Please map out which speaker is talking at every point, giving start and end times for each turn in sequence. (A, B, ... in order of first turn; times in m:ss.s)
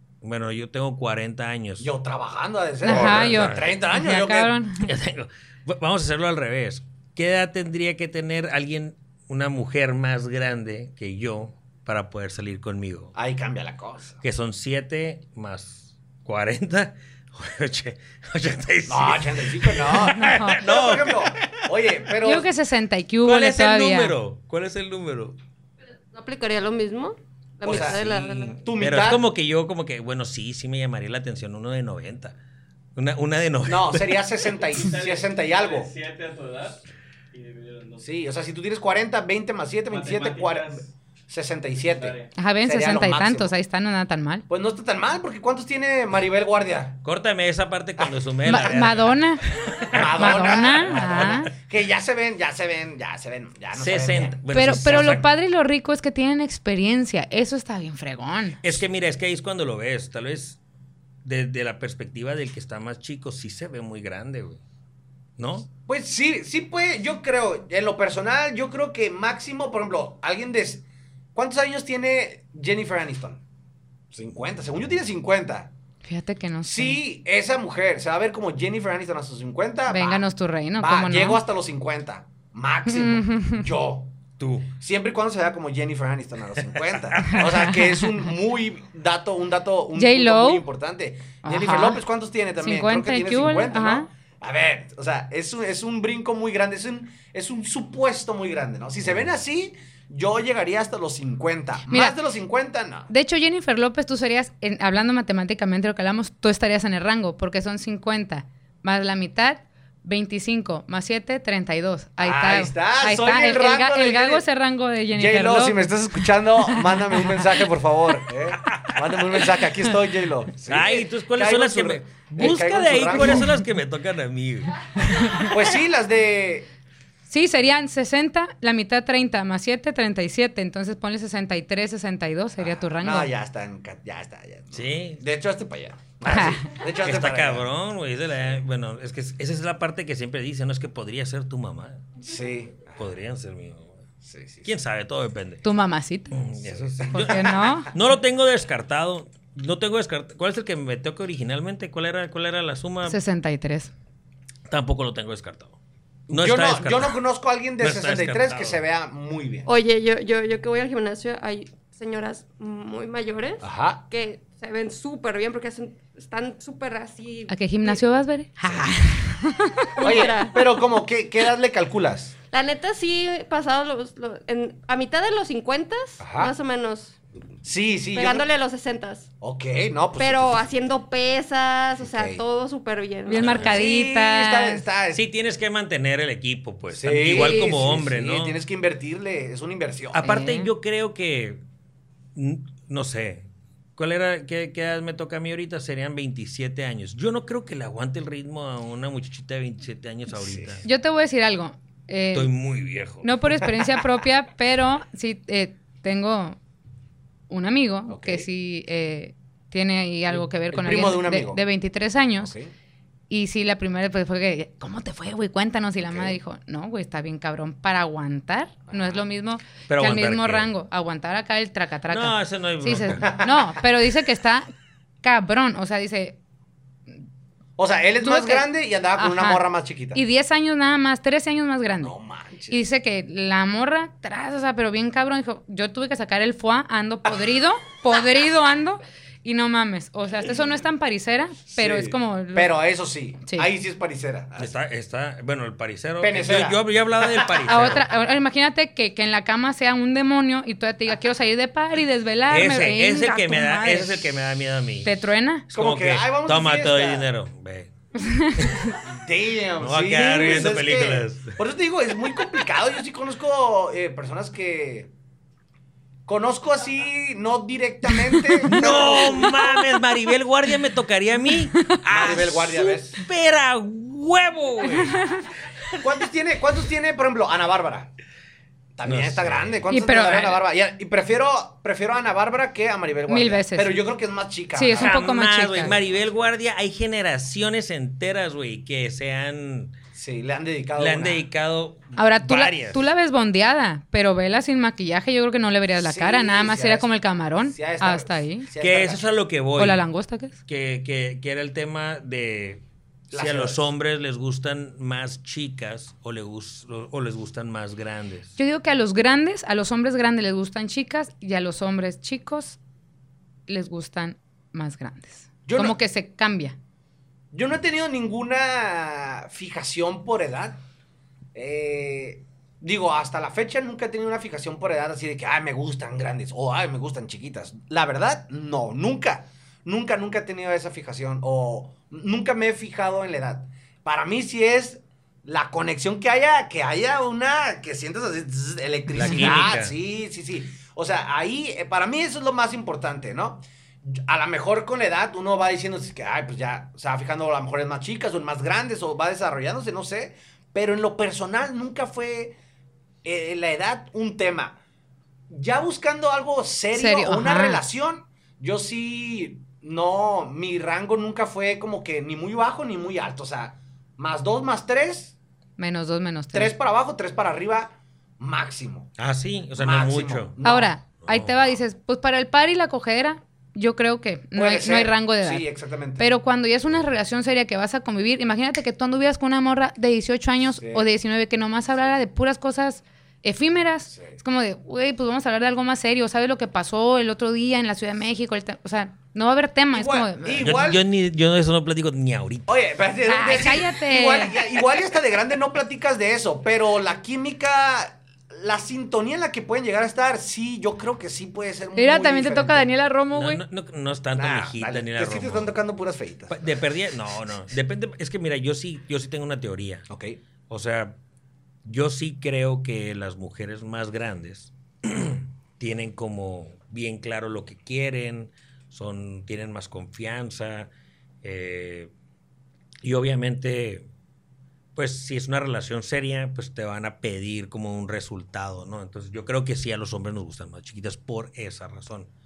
0:00.2-0:01.9 A
0:01.8-0:04.6 B
0:02.8-0:04.9 C
0:02.9-0:03.7 A
0:04.8-0:13.2 A
0:13.2-0:14.2 B
0:14.2-0:21.7 A
0:18.9-0:22.5 B
0:20.0-0:20.6 C
0:22.2-0:24.2 C
0:23.2-0:25.4 A
0:26.1-0:28.6 D
0:27.6-0:28.0 B
0:27.6-0:32.4 A
0:28.6-0:29.2 B
0:33.0-0:34.3 A
0:33.7-0:35.9 B
0:34.7-0:36.8 E
0:37.3-0:38.1 E
0:38.0-0:43.5 B
0:39.9-0:40.9 E
0:41.9-0:42.3 E
0:42.3-0:44.4 C
0:44.5-0:47.0 B
0:47.0-0:51.4 A
0:48.0-0:48.9 B
0:48.4-0:51.5 C
0:49.8-0:55.2 B
0:53.7-0:55.2 A
0:54.5-0:58.6 C
0:58.6-1:00.6 A
1:01.2-1:04.6 A
1:05.4-1:05.7 A
1:05.9-1:10.8 B
1:11.3-1:13.4 B
1:14.1-1:15.7 B
1:16.0-1:17.0 C
1:16.6-1:24.1 B
1:19.9-1:21.4 C
1:22.9-1:23.6 C
1:24.4-1:24.7 A
1:24.8-1:43.1 B
1:26.8-1:27.5 A
1:27.2-1:28.0 C
1:30.0-1:30.6 C
1:31.4-1:32.0 C
1:32.6-1:34.1 C
1:41.9-1:42.2 C
1:43.1-1:55.8 C
1:52.2-1:54.4 B
1:55.1-2:03.5 B
1:56.7-1:57.6 C
1:58.7-1:59.4 A
2:00.6-2:05.6 A
2:05.1-2:05.5 C
2:05.4-2:06.7 B
2:07.3-2:13.3 C
2:12.6-2:17.7 B
2:14.7-2:15.2 A
2:16.2-2:16.7 C
2:17.0-2:22.1 A
2:22.2-2:23.0 B
2:23.0-2:24.0 A
2:24.2-2:24.8 B
2:24.6-2:25.6 A
2:25.6-2:26.4 C
2:26.3-2:33.2 A
2:26.6-2:27.8 B
2:27.1-2:27.9 C
2:33.0-2:33.9 C
2:34.7-2:35.8 A
2:36.3-2:39.7 B
2:36.3-2:37.2 A
2:37.8-2:38.8 A
2:39.7-2:48.0 D
2:43.6-2:44.0 B
2:47.5-2:50.3 C
2:48.6-2:48.9 B
2:50.0-2:50.9 D
2:50.0-2:52.4 B
2:52.5-2:57.2 D
2:56.2-2:56.5 B
2:57.6-2:58.5 B
2:58.1-2:59.3 D
2:59.4-3:00.7 B
3:00.2-3:03.7 D
3:02.0-3:02.4 B
3:03.3-3:04.8 C
3:03.4-3:03.8 A
3:03.4-3:05.2 B
3:05.1-3:08.6 A
3:06.9-3:10.3 B
3:10.1-3:11.6 A
3:10.2-3:10.7 C
3:12.4-3:20.9 A
3:20.3-3:20.8 B
3:20.8-3:22.5 C
3:22.3-3:23.4 A
3:23.2-3:26.6 C
3:27.5-3:32.5 C
3:28.1-3:28.5 B
3:30.3-3:31.6 B
3:32.4-3:32.7 B
3:33.3-3:44.7 C
3:36.0-3:36.4 B
3:38.9-3:39.2 B
3:39.9-3:40.7 A
3:42.1-3:43.3 A
3:43.1-3:43.7 B
3:45.2-3:46.4 C
3:47.8-3:50.2 B
3:48.2-3:49.6 C
3:50.1-3:52.1 C
3:52.0-3:52.8 B
3:52.7-4:02.7 C
4:01.7-4:04.8 B
4:04.6-4:08.1 A
4:06.2-4:08.0 B
4:07.7-4:14.3 C
4:12.5-4:15.1 A
4:15.0-4:15.7 C
4:15.7-4:17.9 A
4:15.7-4:17.3 B
4:18.2-4:19.0 C
4:18.6-4:18.9 A
4:19.0-4:25.1 B
4:19.8-4:21.6 A
4:26.2-4:29.6 B
4:28.1-4:29.8 C
4:28.6-4:35.3 A
4:32.0-4:33.2 B
4:35.0-4:35.4 C
4:36.0-4:38.1 B
4:39.0-4:45.2 B
4:39.0-4:39.9 A
4:39.9-4:40.6 C
4:43.3-4:43.9 C
4:44.7-4:46.0 C
4:44.9-4:49.9 A
4:50.1-4:51.4 B
4:51.0-4:53.0 A
4:52.2-4:58.7 C
4:56.0-4:57.1 B
4:57.6-4:59.2 B
4:58.8-5:00.1 A
4:59.8-5:00.6 C
5:00.7-5:08.6 A
5:03.3-5:03.9 B
5:08.6-5:12.8 C
5:13.7-5:16.8 C
5:15.7-5:16.0 B
5:17.5-5:20.8 B
5:21.6-5:52.6 B
5:39.1-5:39.9 A
5:53.2-5:54.8 B
5:55.5-6:05.4 B
5:56.9-5:57.8 C
6:05.8-6:06.7 C
6:06.5-6:09.1 B
6:09.2-6:10.5 A
6:09.8-6:11.0 B
6:10.6-6:15.7 C
6:11.2-6:11.8 A
6:14.5-6:16.2 B
6:16.2-6:30.8 C
6:20.8-6:21.1 B
6:24.1-6:24.4 B
6:29.9-6:31.0 B
6:30.6-6:32.8 A
6:32.7-6:42.9 B
6:33.3-6:34.6 C
6:42.0-6:43.6 C
6:43.3-6:45.7 A
6:44.4-6:46.7 B
6:46.5-6:50.1 A
6:50.1-6:50.4 B
6:50.7-6:51.2 A
6:51.8-7:00.9 A
7:01.4-7:02.1 A
7:03.0-7:04.1 A
7:05.0-7:12.3 A